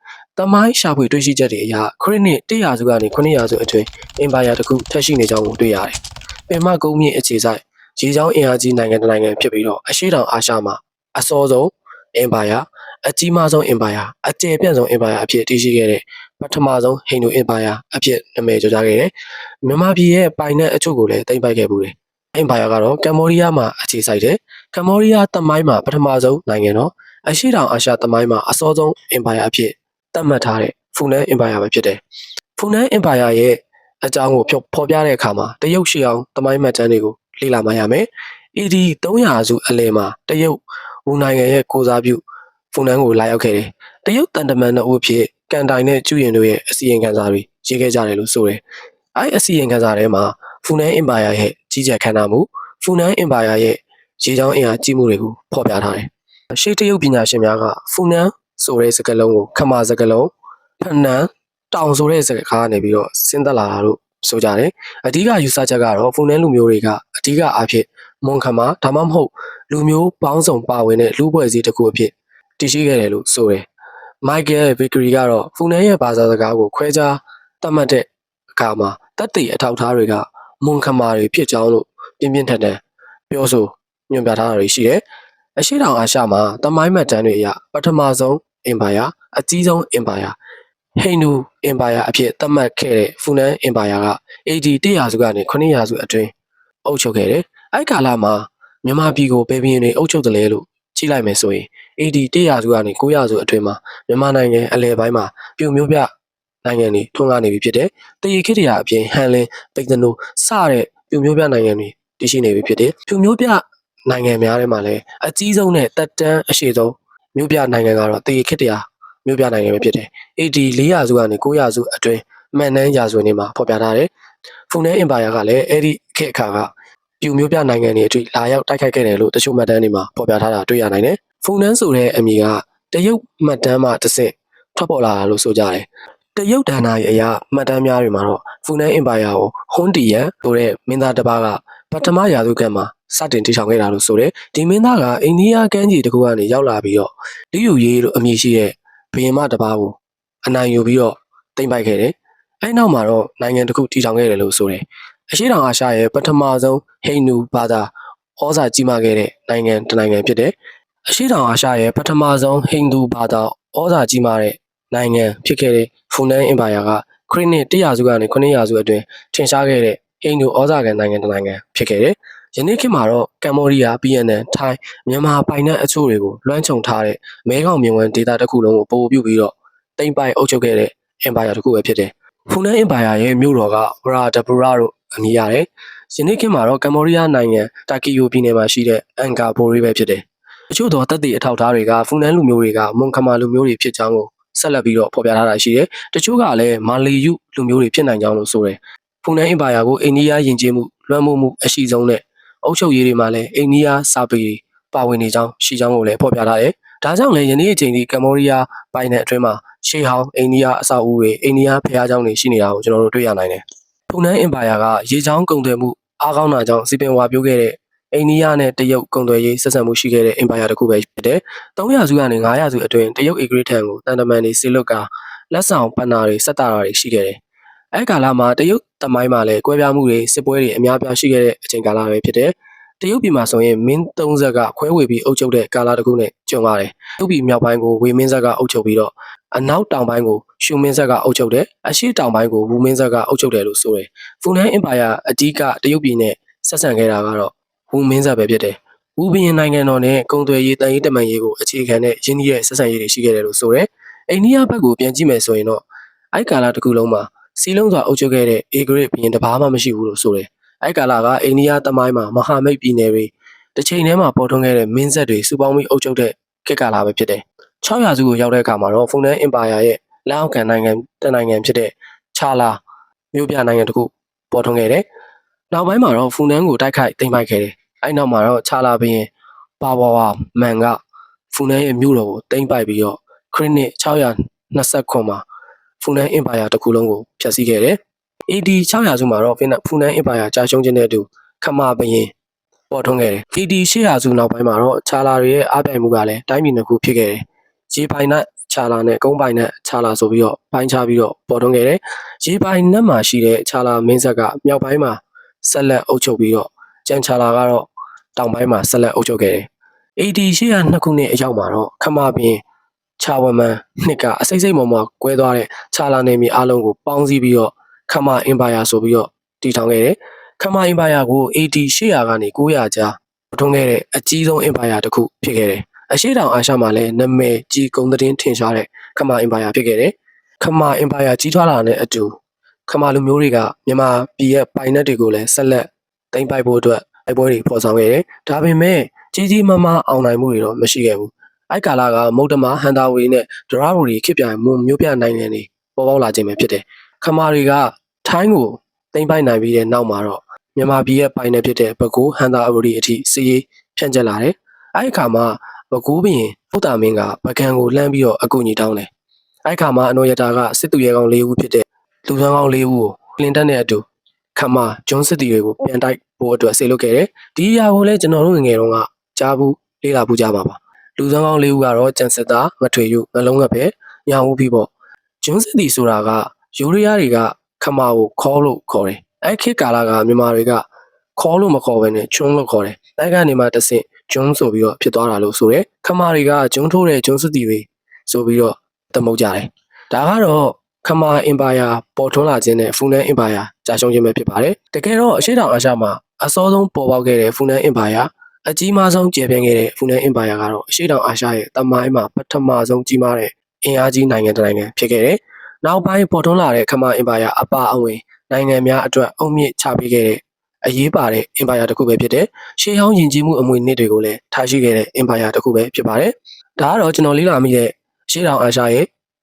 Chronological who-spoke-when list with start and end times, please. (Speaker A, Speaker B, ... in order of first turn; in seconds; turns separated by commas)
Speaker A: 0.4-6.0, Speaker A: 6.5-32.0, Speaker A: 32.6-48.6, Speaker A: 49.1-73.7, Speaker A: 74.2-85.0, Speaker A: 85.6-90.4, Speaker A: 91.0-96.3, Speaker A: 96.8-106.1, Speaker A: 106.6-124.1, Speaker A: 124.7-160.6, Speaker A: 161.1-227.4, Speaker A: 227.9-272.8, Speaker A: 273.3-275.1, Speaker A: 275.7-281.0, Speaker A: 281.5-285.4, Speaker A: 286.0-292.3, Speaker A: 292.9-312.6, Speaker A: 313.2-359.1, Speaker A: 359.7-380.9, Speaker A: 381.4-419.1